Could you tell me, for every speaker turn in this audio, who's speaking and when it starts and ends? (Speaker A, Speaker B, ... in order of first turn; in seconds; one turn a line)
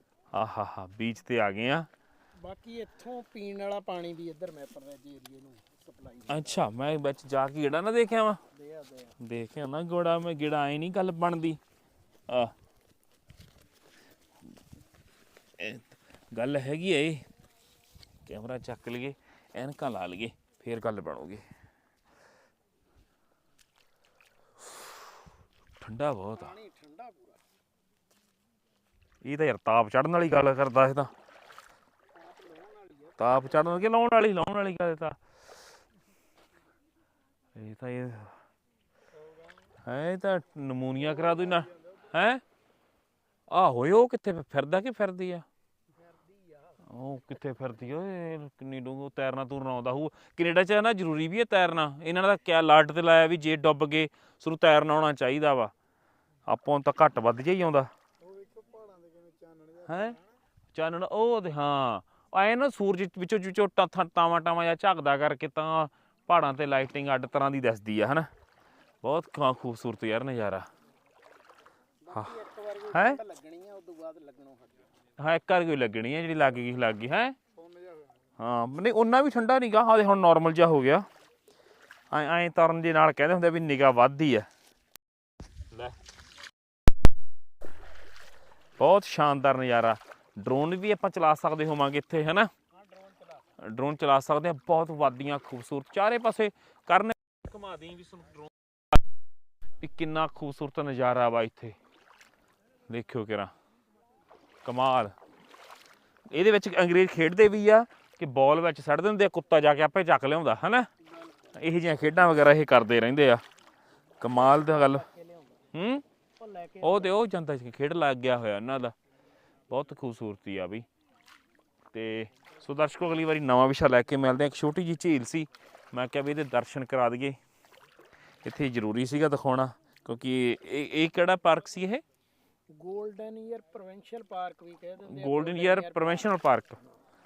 Speaker A: 0.3-1.9
Speaker B: 2.4-6.7
Speaker A: 6.3-8.4
Speaker B: 8.5-9.2
Speaker A: 9.2-11.6
Speaker A: 15.6-17.3
Speaker A: 18.2-21.4
Speaker A: 25.8-26.5
Speaker B: 26.3-27.4
Speaker A: 29.2-31.1
Speaker B: 32.1-33.8
Speaker A: 33.2-35.2
Speaker A: 37.5-38.3
Speaker B: 39.2-39.5
Speaker A: 39.8-42.4
Speaker B: 41.0-41.9
Speaker A: 43.5-45.5
Speaker B: 46.0-46.9
Speaker A: 46.9-55.7
Speaker A: 56.5-57.9
Speaker B: 58.2-60.3
Speaker A: 59.8-60.2
Speaker A: 60.7-68.3
Speaker A: 69.0-70.7
Speaker B: 72.0-74.9
Speaker A: 72.9-73.2
Speaker A: 75.2-77.4
Speaker A: 78.4-81.0
Speaker A: 82.1-84.5
Speaker A: 88.8-92.5
Speaker B: 92.7-93.5
Speaker A: 93.6-98.5
Speaker A: 99.8-101.8
Speaker A: 102.9-103.5
Speaker A: 104.7-105.1
Speaker A: 106.3-110.9
Speaker B: 111.0-111.6
Speaker A: 111.5-113.4
Speaker A: 114.2-115.0
Speaker B: 114.2-115.6
Speaker A: 115.7-116.0
Speaker B: 116.4-117.2
Speaker A: 116.8-118.9
Speaker A: 119.7-120.8
Speaker A: 121.9-127.4
Speaker A: 128.4-132.0
Speaker B: 132.8-136.3
Speaker A: 135.0-136.8